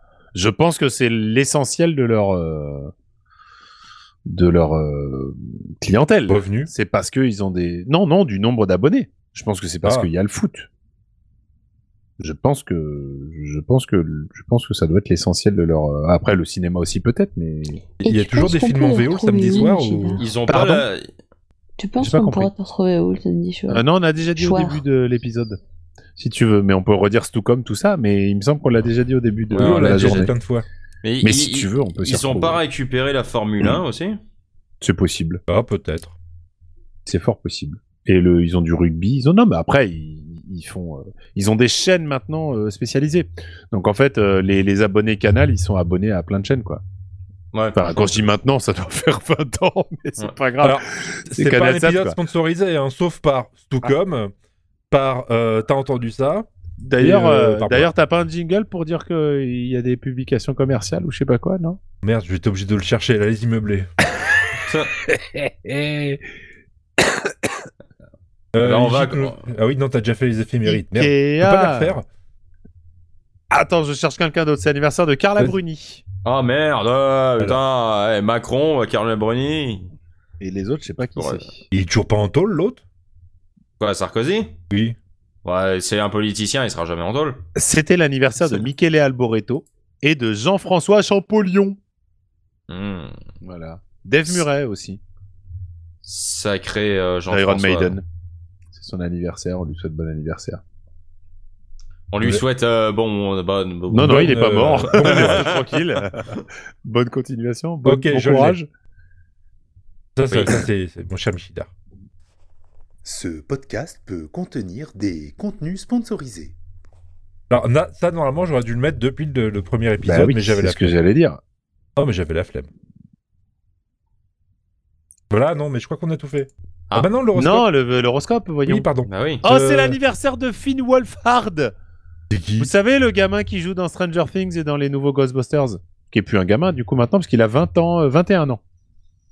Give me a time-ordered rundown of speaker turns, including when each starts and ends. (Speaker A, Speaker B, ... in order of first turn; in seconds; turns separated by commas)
Speaker A: 0.3-2.9, Speaker A: 4.3-10.7, Speaker B: 6.3-6.7, Speaker B: 9.8-10.1, Speaker A: 12.2-17.8, Speaker B: 18.0-20.9, Speaker C: 18.0-20.2, Speaker D: 20.2-21.1, Speaker C: 21.8-23.9, Speaker A: 22.0-22.5, Speaker A: 23.7-25.6, Speaker C: 24.4-24.8, Speaker A: 26.2-30.3, Speaker D: 29.5-30.3, Speaker B: 29.6-30.7, Speaker D: 31.0-34.2, Speaker A: 31.2-32.6, Speaker A: 34.8-35.4, Speaker B: 35.5-36.2, Speaker A: 37.0-46.8, Speaker D: 47.5-48.2, Speaker A: 47.8-52.2, Speaker B: 50.6-54.3, Speaker B: 54.9-56.5, Speaker A: 56.8-61.8, Speaker B: 57.0-57.9, Speaker B: 62.0-63.9, Speaker D: 64.7-64.9, Speaker A: 65.1-66.2, Speaker A: 67.0-67.5, Speaker B: 68.5-72.1, Speaker D: 68.6-69.4, Speaker A: 70.7-72.0, Speaker A: 73.5-76.0, Speaker D: 76.2-79.9, Speaker A: 80.4-81.7, Speaker D: 81.2-81.5, Speaker B: 81.7-82.8, Speaker D: 83.8-84.6, Speaker B: 84.7-85.0, Speaker D: 85.5-87.4, Speaker A: 87.6-91.8, Speaker D: 92.7-93.1, Speaker A: 93.4-95.0, Speaker D: 96.0-98.0, Speaker A: 97.3-98.0, Speaker A: 98.7-100.6, Speaker D: 102.1-104.3, Speaker A: 103.9-108.7, Speaker B: 104.0-105.5, Speaker D: 105.0-105.4, Speaker B: 107.8-108.6, Speaker B: 110.2-111.7, Speaker D: 110.3-110.7, Speaker E: 113.0-116.5, Speaker B: 117.5-121.0, Speaker A: 120.0-121.4, Speaker B: 122.0-122.7, Speaker B: 125.3-127.7, Speaker A: 127.3-128.9, Speaker B: 128.7-130.0, Speaker D: 129.1-129.4, Speaker A: 129.4-131.7, Speaker B: 132.3-132.7, Speaker A: 132.6-138.6